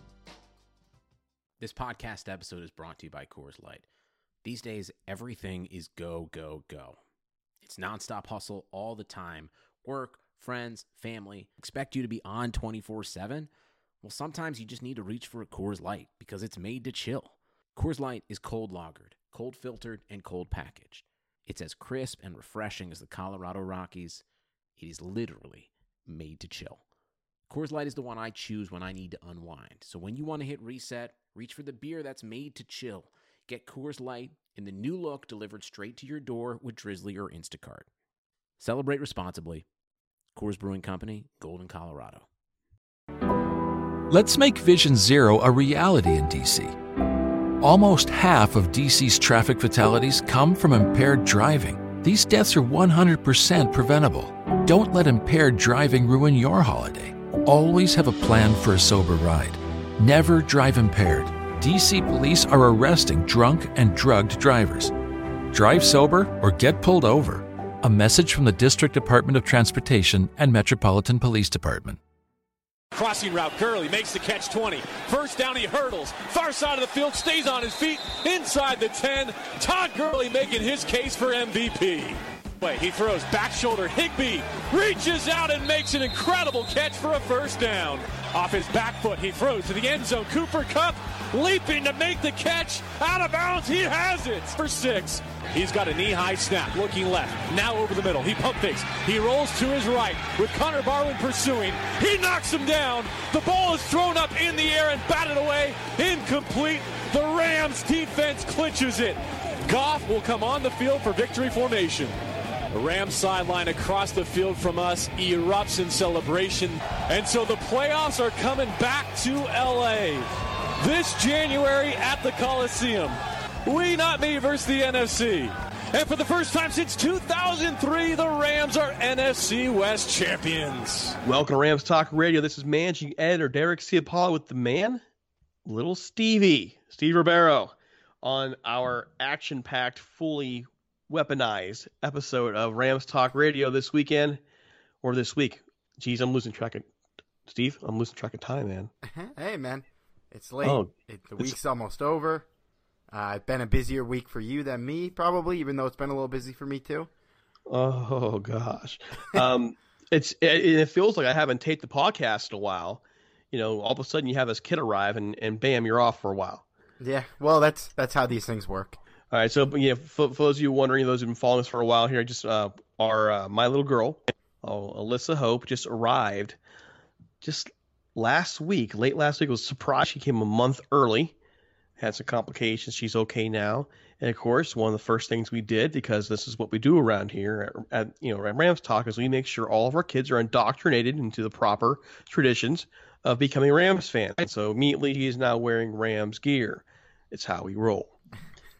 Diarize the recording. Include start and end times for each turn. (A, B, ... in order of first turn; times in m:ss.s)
0:01.6-0:03.9 A
0:04.4-0:07.0 A
0:07.6-0:13.5 A
0:14.0-0:24.2 A
0:24.8-0:26.8 A
0:27.5-0:37.9 A
0:38.6-0:39.7 A
0:40.3-0:42.2 A
0:44.1-0:46.8 B
0:47.6-1:04.9 B
1:05.5-1:12.0 B
1:12.9-1:52.2 C
1:52.7-2:11.2 C
2:11.2-2:15.0 D
2:15.7-2:24.4 D
2:25.0-2:26.8 D
2:27.5-2:28.9 D
2:29.1-2:32.5 E
2:30.6-2:31.6 D
2:33.1-2:37.1 E
2:37.7-2:46.6 D
2:47.0-2:49.0 E
2:49.3-2:56.6 D
2:57.4-3:01.3 D
3:02.0-3:18.1 D